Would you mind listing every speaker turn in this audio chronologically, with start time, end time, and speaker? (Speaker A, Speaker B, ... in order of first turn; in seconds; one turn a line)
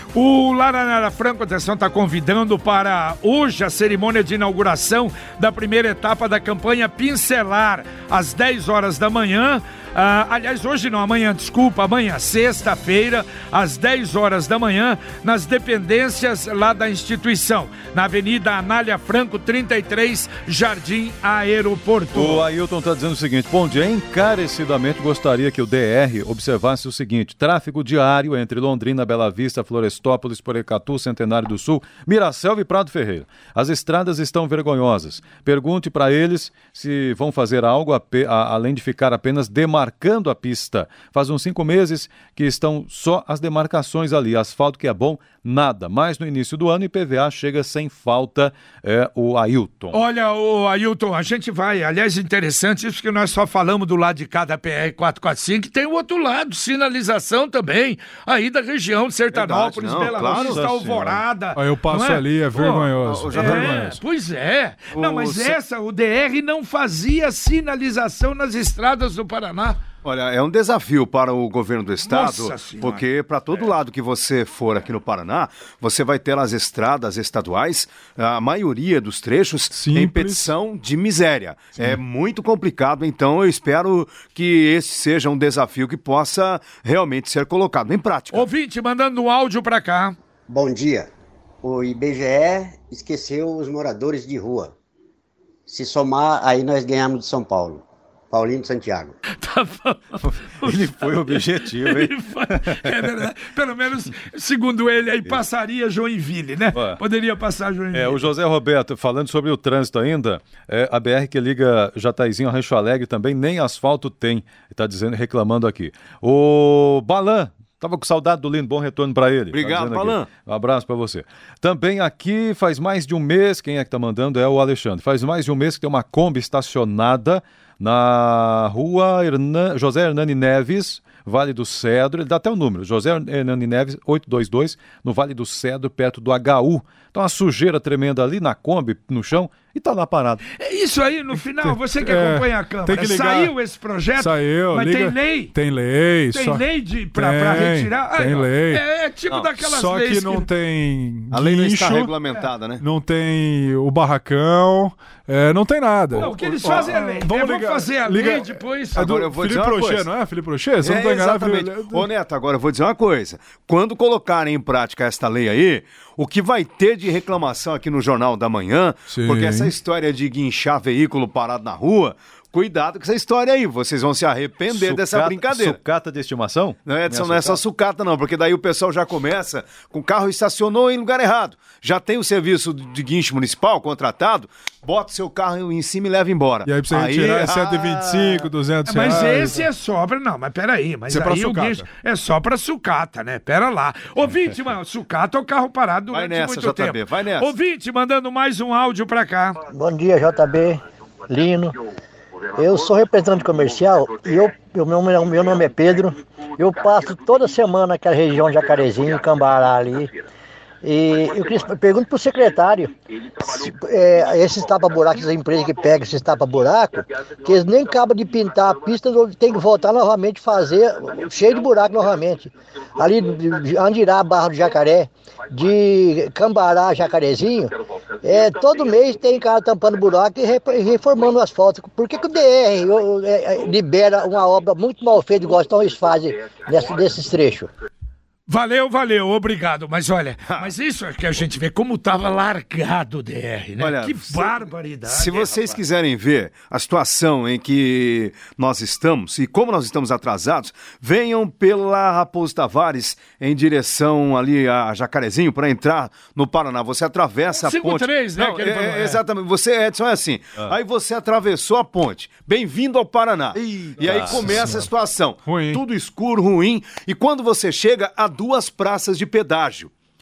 Speaker A: 0.1-22.5
Speaker B: 22.1-50.0
Speaker A: 49.9-69.8
Speaker C: 59.3-60.7
Speaker B: 60.1-61.3
Speaker D: 61.5-64.0
Speaker C: 63.0-63.9
Speaker C: 64.9-65.6
Speaker C: 70.0-88.5
Speaker A: 72.0-73.7
Speaker D: 79.7-80.5
Speaker A: 88.3-90.2
Speaker E: 90.5-91.1
Speaker E: 91.7-94.7
Speaker E: 95.7-99.1
Speaker A: 99.4-108.3
Speaker B: 100.2-103.0
Speaker B: 106.7-107.0
Speaker B: 107.9-140.4
Speaker C: 119.5-120.3
Speaker A: 140.6-145.5
Speaker D: 141.6-143.6
Speaker D: 144.1-148.8
Speaker A: 146.3-150.5
Speaker C: 149.3-149.5
Speaker D: 149.6-152.1
Speaker C: 151.3-152.8
Speaker D: 152.8-162.1
Speaker A: 156.2-159.1
Speaker C: 156.3-156.8
Speaker C: 158.9-160.1
Speaker C: 160.8-175.8
Speaker D: 169.1-169.7
Speaker B: 174.7-177.6
Speaker C: 176.8-188.4
Speaker D: 186.7-189.7
Speaker A: 188.8-199.6
Speaker D: 191.1-191.9
Speaker C: 196.1-197.5
Speaker F: 199.7-201.8
Speaker F: 202.5-210.1
Speaker F: 210.8-227.7
Speaker F: 228.2-237.7
Speaker A: 238.5-245.8
Speaker C: 243.8-269.9
Speaker A: 257.5-259.2
Speaker D: 263.6-264.9
Speaker B: 264.0-264.6
Speaker D: 265.4-265.8